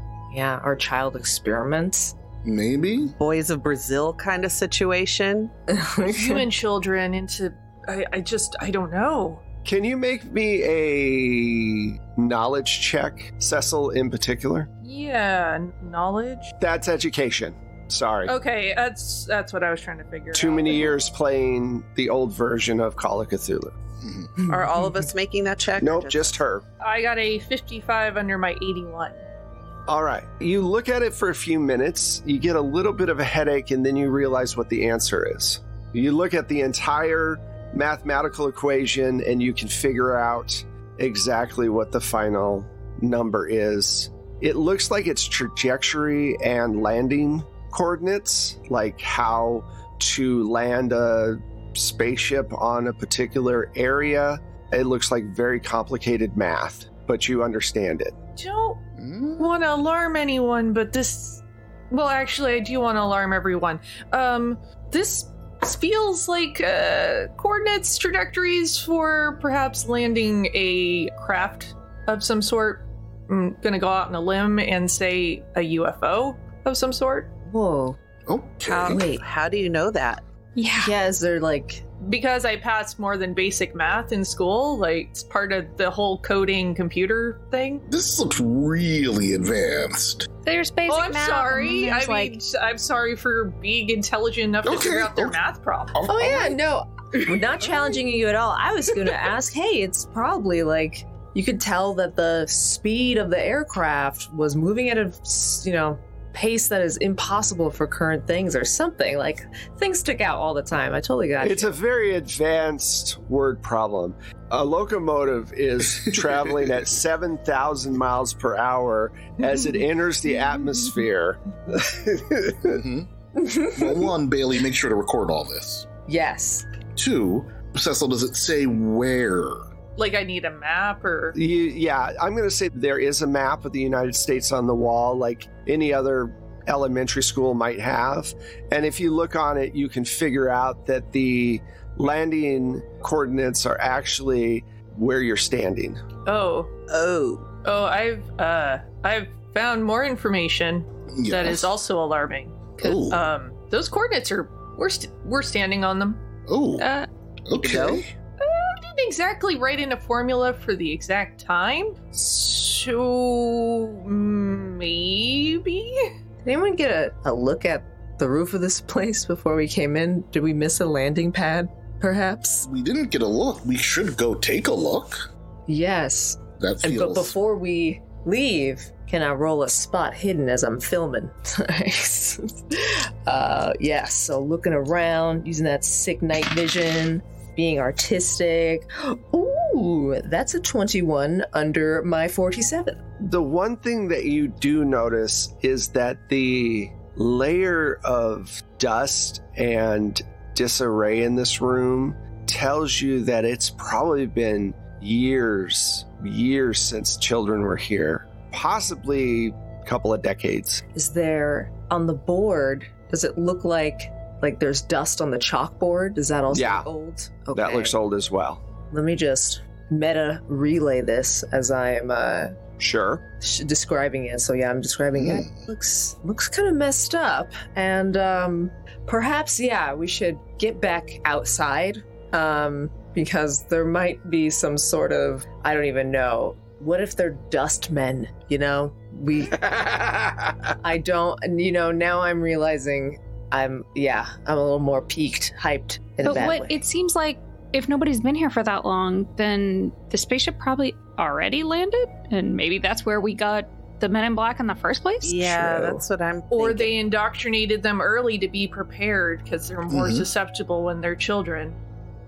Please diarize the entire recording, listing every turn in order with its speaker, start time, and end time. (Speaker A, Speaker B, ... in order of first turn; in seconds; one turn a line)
Speaker A: 0.3-2.1
Speaker B: 2.4-3.1
Speaker C: 3.2-5.5
Speaker A: 5.7-6.5
Speaker D: 6.1-9.4
Speaker E: 9.7-14.7
Speaker D: 14.8-16.5
Speaker E: 16.6-18.3
Speaker D: 18.3-21.0
Speaker E: 20.3-23.8
Speaker B: 24.0-24.3
Speaker A: 24.4-25.0
Speaker C: 24.5-26.4
Speaker E: 25.8-26.6
Speaker D: 26.8-29.2
Speaker E: 29.9-58.2
Speaker D: 58.4-58.8
Speaker B: 59.0-59.5
Speaker D: 59.4-77.3
Speaker A: 77.5-78.0
Speaker B: 78.3-79.0
Speaker C: 78.7-80.2
Speaker A: 78.9-79.2
Speaker F: 80.6-81.0
Speaker A: 80.8-81.8
Speaker D: 82.0-87.8
Speaker B: 87.9-90.3
Speaker F: 90.5-92.4
Speaker D: 90.9-96.0
Speaker B: 94.7-95.4
Speaker B: 95.9-96.6
Speaker A: 96.1-111.8
Speaker E: 111.4-122.8
Speaker B: 116.0-116.8
Speaker B: 122.6-123.1
Speaker A: 123.4-124.1
Speaker B: 123.7-125.9
Speaker A: 126.1-126.7
Speaker B: 127.0-129.7
Speaker D: 130.0-131.4
Speaker E: 131.3-146.0
Speaker D: 146.3-146.7
Speaker C: 146.9-147.5
Speaker D: 147.6-156.2
Speaker B: 151.1-151.7
Speaker B: 152.8-153.3
Speaker B: 156.5-156.9
Speaker D: 156.8-157.1
Speaker B: 157.5-158.1
Speaker C: 157.6-158.0
Speaker D: 158.4-166.1
Speaker A: 166.4-172.7
Speaker B: 172.7-175.3
Speaker A: 175.7-193.0
Speaker B: 176.6-177.4
Speaker E: 193.2-210.8
Speaker A: 210.9-217.9
Speaker E: 216.5-216.9
Speaker E: 217.6-218.6
Speaker A: 218.9-222.7
Speaker E: 222.8-223.2
Speaker A: 223.4-239.6
Speaker B: 225.1-225.7
Speaker A: 240.8-246.8
Speaker F: 246.2-255.5
Speaker C: 255.2-256.9
Speaker A: 255.5-256.0
Speaker D: 256.5-261.8
Speaker B: 259.9-260.3